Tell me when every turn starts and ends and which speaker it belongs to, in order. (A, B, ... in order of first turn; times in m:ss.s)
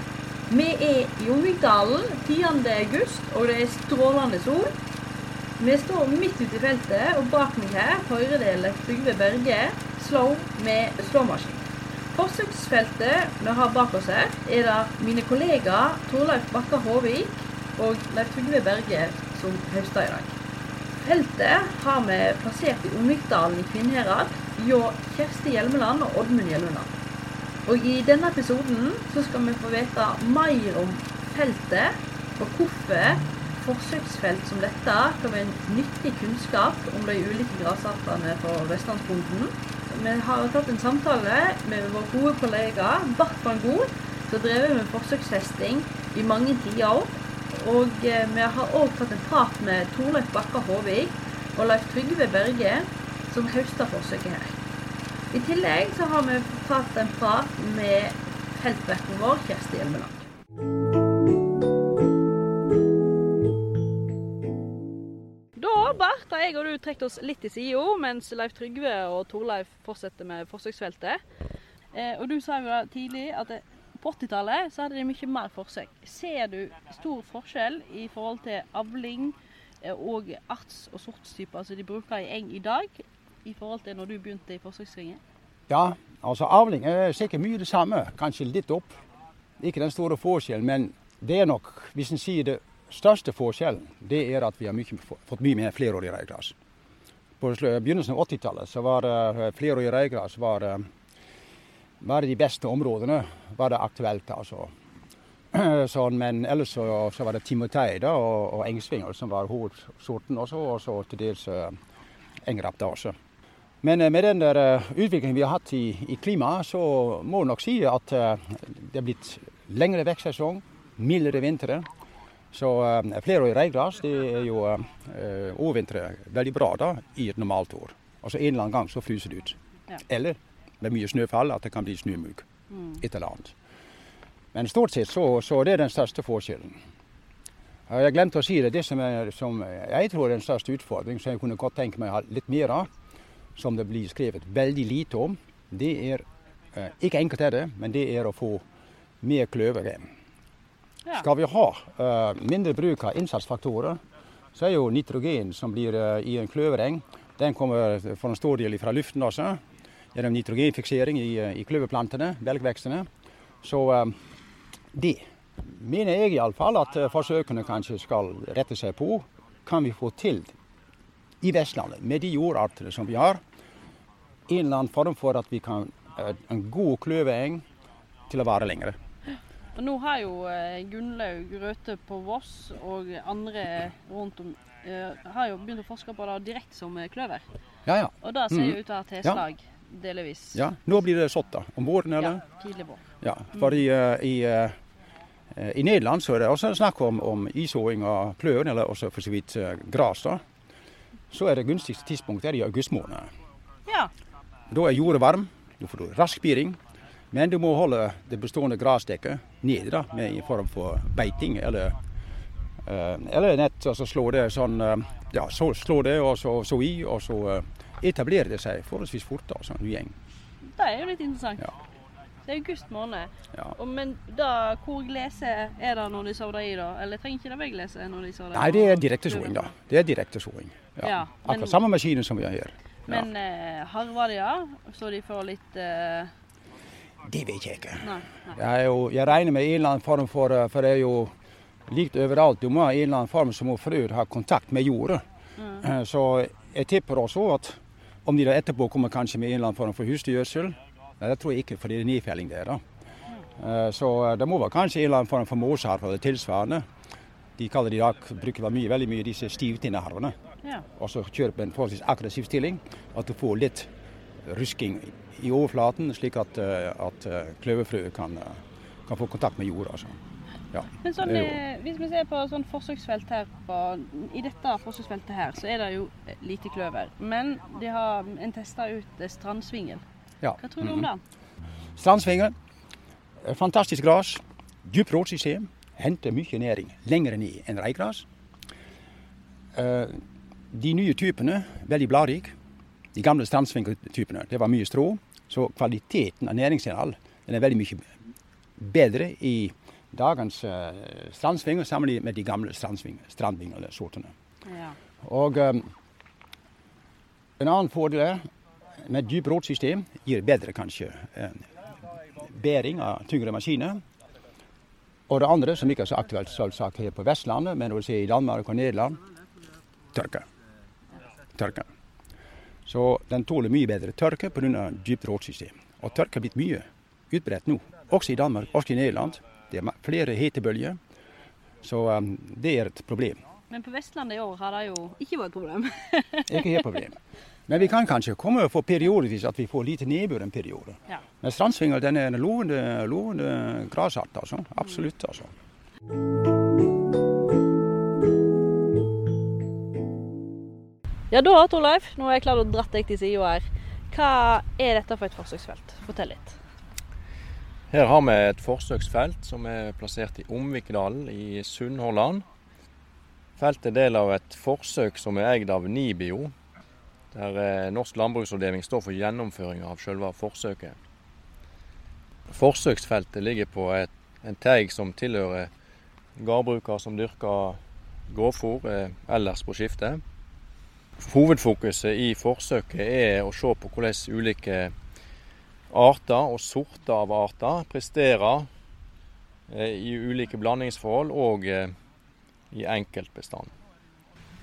0:00.5-0:04.7 A
0:05.6-0:20.4 A
0:21.0-0:26.9 A
0:27.7-0:54.6 A
0:55.3-1:00.3 A
1:05.6-1:11.2 A
1:11.9-1:25.2 A
1:25.7-1:29.0 B
1:29.6-1:36.5 B
1:37.4-1:40.9 B
1:42.0-1:44.7 B
1:45.5-1:51.8 B
1:52.4-1:53.1 B
1:53.8-2:01.9 B
2:02.5-2:09.6 B
2:10.1-2:12.5 B
2:12.7-2:13.0 A
2:13.0-2:13.5 B
2:14.5-2:16.8 B
2:17.9-2:22.9 B
2:23.6-2:28.6 B
2:29.2-2:30.1 B
2:31.2-2:34.0 B
2:34.6-2:39.6 B
2:40.2-2:43.1 B
2:43.6-2:44.2 B
2:44.9-2:50.5 B
2:51.4-2:53.4 B
2:54.5-2:57.6 B
2:58.3-2:59.0 B
2:59.8-3:07.4 A
3:07.9-3:09.4 B
3:08.2-3:10.7 A
3:10.6-3:12.4 B
3:12.2-3:13.0 A
3:13.2-3:14.8 B
3:15.6-3:20.4 B
3:21.3-3:23.3 B
3:23.9-3:24.1 A
3:24.7-3:26.8 B
3:27.3-3:32.0 B
3:32.9-3:40.1 B
3:40.8-3:41.7 A
3:42.4-3:49.7 A
3:48.5-3:53.3 B
3:51.0-3:51.8 A
3:53.1-3:56.3 A
3:57.2-4:01.3 B
3:58.0-3:58.6 A
4:01.9-4:05.2 B
4:05.6-4:05.9 A
4:05.8-4:12.8 B
4:13.6-4:16.8 B
4:17.6-4:20.4 B
4:21.0-4:23.9 B
4:24.4-4:30.2 B
4:30.7-4:31.6 B
4:31.0-4:40.0 A
4:40.4-4:41.1 B
4:40.6-4:41.2 A
4:42.0-4:42.5 B
4:43.4-4:48.3 B
4:49.8-4:50.2 B
4:50.7-4:52.5 B
4:53.2-4:58.1 B
4:58.8-5:04.3 B
5:04.7-5:05.0 A
5:05.2-5:05.9 B
5:07.6-5:08.4 B
5:09.0-5:14.0 B
5:15.3-5:19.2 B
5:20.1-5:20.5 B
5:21.6-5:21.9 B
5:22.9-5:31.0 B
5:31.8-5:33.4 B
5:33.7-5:36.8 A
5:36.5-5:37.2 B
5:37.7-5:45.5 B
5:51.3-5:56.6 A
5:57.9-6:02.4 C
6:03.6-6:06.5 C
6:07.3-6:11.0 C
6:12.5-6:15.7 C
6:16.4-6:20.2 C
6:21.2-6:24.9 C
6:25.9-6:28.7 C
6:29.7-6:31.9 C
6:32.7-6:33.7 C